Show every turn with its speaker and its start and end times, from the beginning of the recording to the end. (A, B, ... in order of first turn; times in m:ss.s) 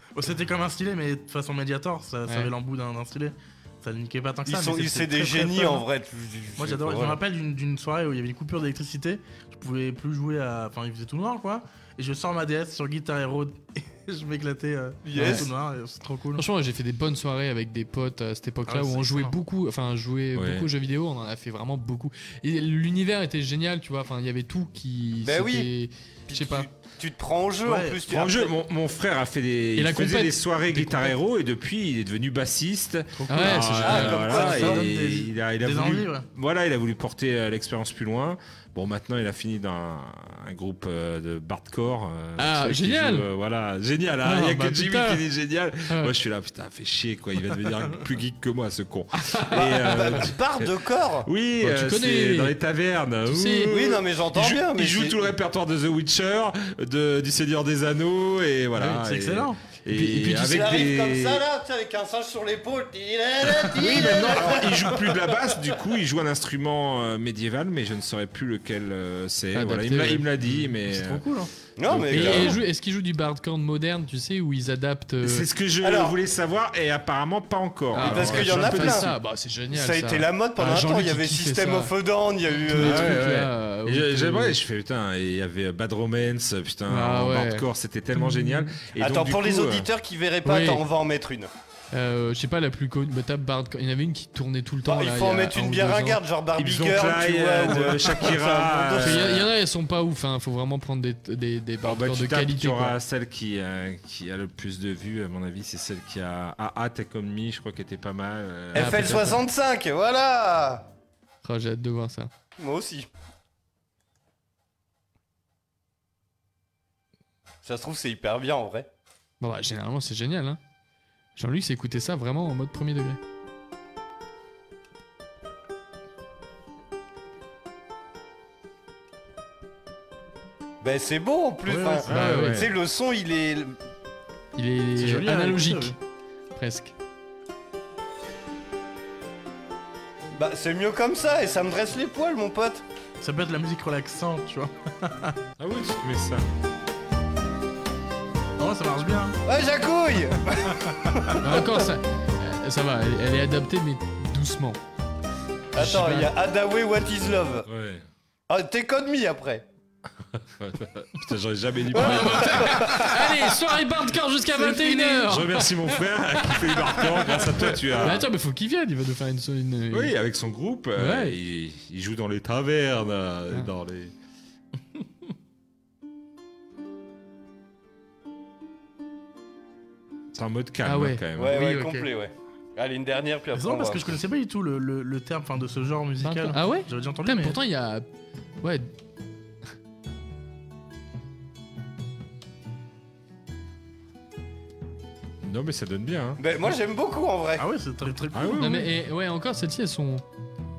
0:00.2-0:05.9 A
0:04.5-0:07.2 B
0:06.6-0:16.4 A
0:15.1-0:15.5 B
0:15.2-0:15.5 C
0:16.4-0:26.7 C
0:18.7-0:19.4 A
0:20.4-0:20.7 D
0:25.2-0:25.7 B
0:26.3-0:28.5 B
0:27.6-0:28.0 A
0:28.1-0:50.7 D
0:29.8-0:31.1 C
0:33.2-0:36.3 A
0:33.3-0:34.8 C
0:33.8-0:34.9 B
0:42.4-0:43.3 C
0:44.2-0:45.2 C
0:49.2-0:50.2 C
0:49.5-0:51.3 B
0:51.2-1:01.4 D
0:51.6-0:52.6 C
0:53.3-0:53.8 C
0:53.7-0:55.3 B
0:58.8-0:59.6 A
0:59.9-1:00.7 C
1:00.4-1:05.3 B
1:03.8-1:11.2 D
1:09.5-1:10.7 C
1:10.8-1:11.5 A
1:11.8-1:12.6 B
1:11.8-1:12.6 D
1:12.1-1:15.5 C
1:15.2-1:19.1 D
1:15.8-1:16.2 B
1:17.9-1:21.9 C
1:18.0-1:19.1 B
1:19.7-1:23.2 B
1:22.7-1:24.6 C
1:22.7-1:29.9 D
1:26.9-1:28.8 C
1:29.0-1:31.5 B
1:30.4-1:30.8 C
1:31.9-1:36.2 C
1:34.9-1:39.4 B
1:36.6-1:39.5 D
1:39.0-1:43.0 C
1:41.8-1:49.4 D
1:48.7-1:50.9 B
1:48.8-1:49.4 C
1:51.4-1:52.3 C
1:52.6-1:53.1 B
1:57.6-1:58.9 B
1:59.4-2:00.6 C
2:01.4-2:03.2 C
2:10.8-2:13.8 B
2:11.7-2:12.1 A
2:12.1-2:12.7 D
2:12.1-2:12.7 C
2:14.6-2:16.0 C
2:15.0-2:16.0 A
2:16.6-2:16.9 C
2:20.4-2:22.8 B
2:23.2-2:25.4 A
2:25.6-2:26.4 D
2:28.6-2:29.4 A
2:29.5-2:31.7 B
2:31.4-2:34.8 C
2:35.8-2:37.7 B
2:35.8-2:36.3 C
2:37.7-2:38.0 D
2:38.5-2:39.6 B
2:40.5-2:43.0 D
2:41.9-2:45.7 C
2:44.6-2:45.3 A
2:45.2-2:48.3 D
2:46.4-2:47.0 C
2:48.0-2:50.2 C
2:49.9-2:54.1 D
2:51.0-2:51.4 C
3:00.3-3:01.7 D
3:00.8-3:02.1 C
3:01.4-3:04.2 B
3:03.5-3:07.6 A
3:06.2-3:08.1 C
3:08.6-3:08.9 C
3:15.4-3:16.4 D
3:16.4-3:17.6 B
3:17.6-3:18.8 A
3:18.3-3:18.9 D
3:18.6-3:20.2 C